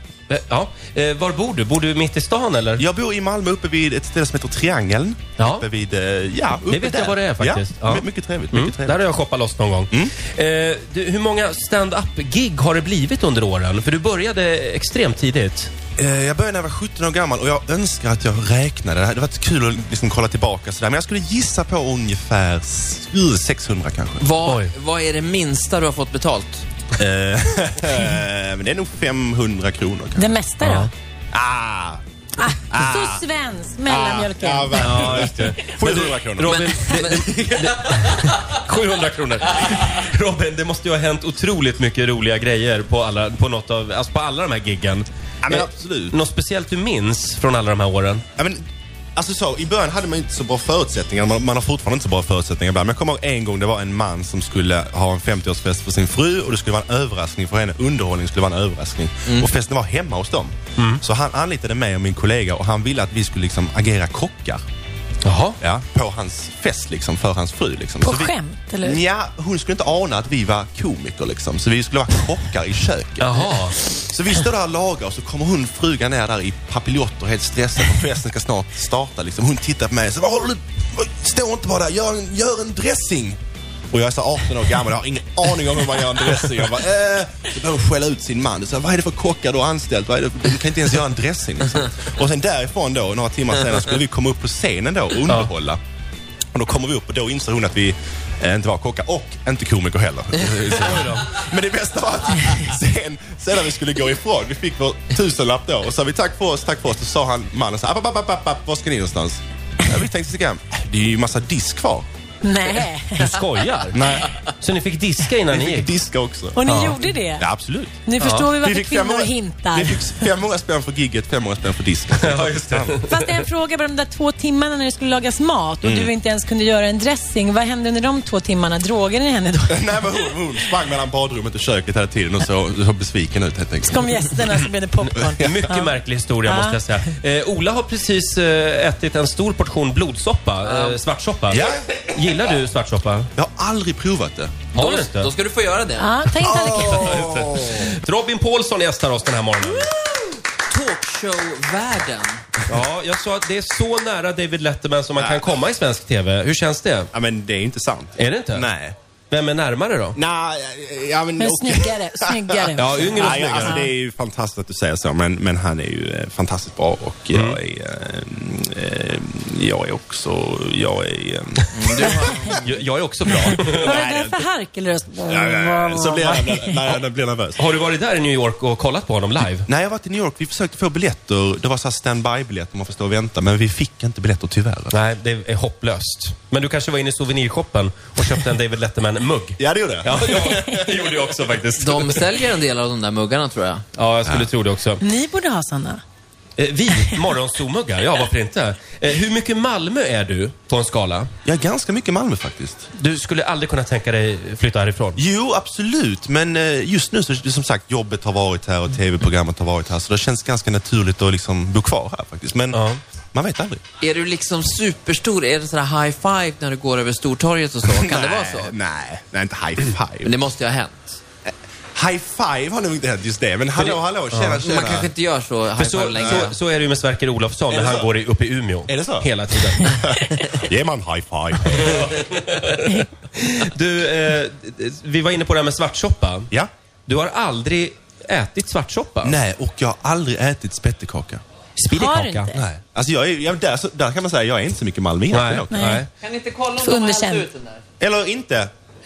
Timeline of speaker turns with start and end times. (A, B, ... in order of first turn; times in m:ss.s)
0:00.3-0:02.8 A
0:02.8-0:09.0 B
0:05.4-0:05.6 A
0:06.6-0:15.7 A
0:16.0-0:24.2 B
0:24.2-0:26.6 C
0:24.4-0:24.7 A
0:27.0-0:30.3 B
0:30.2-0:30.9 D
0:30.6-0:30.9 A
0:31.3-0:33.2 B
0:32.4-0:35.5 D
0:33.8-0:36.9 B
0:34.8-0:48.2 A
0:36.4-0:38.3 C
0:45.4-0:46.2 B
0:48.4-0:48.6 B
0:49.2-1:04.6 B
0:59.2-0:59.5 C
1:00.8-1:01.0 A
1:05.2-1:05.6 A
1:05.6-1:23.4 B
1:08.0-1:09.0 D
1:13.2-1:13.8 A
1:23.9-1:35.8 B
1:36.5-1:52.0 B
1:40.7-1:41.3 A
1:52.4-1:53.4 D
1:53.2-1:55.9 A
1:53.9-1:54.3 B
1:55.5-1:58.0 B
1:56.6-1:57.4 D
1:56.6-1:57.0 A
1:58.0-2:00.3 D
1:58.2-1:58.5 A
1:58.6-2:03.1 B
2:02.2-2:03.3 A
2:03.0-2:10.1 D
2:05.8-2:06.1 B
2:09.7-2:14.4 B
2:13.9-2:15.9 D
2:15.0-2:23.3 A
2:15.2-2:15.7 B
2:16.4-2:16.8 D
2:20.6-2:21.0 C
2:21.5-2:22.1 B
2:23.3-2:24.6 B
2:24.7-2:25.3 A
2:24.7-2:26.2 C
2:26.0-2:27.4 D
2:26.4-2:27.9 B
2:26.4-2:29.9 A
2:30.0-2:32.4 C
2:32.7-2:37.1 A
2:35.2-2:35.5 B
2:37.1-2:38.9 B
2:38.2-2:38.7 A
2:39.3-2:40.2 A
2:40.1-2:52.6 B
2:41.4-2:43.9 D
2:42.7-2:43.8 A
2:47.3-2:47.6 A
2:51.7-2:52.6 C
2:52.3-2:54.0 A
2:53.3-2:54.4 B
2:53.7-2:56.9 D
2:55.2-2:57.6 B
2:57.6-2:59.7 A
2:59.6-3:04.9 B
3:04.9-3:12.3 A
3:09.6-3:11.3 B
3:11.8-3:13.8 C
3:13.9-3:15.0 A
3:15.0-3:16.0 D
3:16.6-3:21.3 A
3:16.9-3:17.3 D
3:21.4-3:22.9 B
3:23.0-3:25.2 A
3:25.2-3:32.8 B
3:32.7-3:33.0 A
3:33.3-3:33.8 B
3:34.0-3:38.7 C
3:37.8-3:40.4 B
3:40.2-3:41.2 C
3:41.5-3:45.1 B
3:44.3-3:44.6 A
3:44.6-3:46.6 C
3:45.8-3:49.9 A
3:46.2-3:46.5 B
3:47.7-3:48.1 B
3:48.9-3:52.2 B
3:51.6-3:56.5 A
3:57.1-3:59.4 A
3:59.2-4:01.4 B
4:01.8-4:02.6 D
4:01.8-4:02.5 A
4:02.5-4:05.9 B
4:05.3-4:06.1 A
4:05.7-4:06.0 D
4:06.2-4:07.8 C
4:06.8-4:07.5 D
4:08.0-4:08.7 B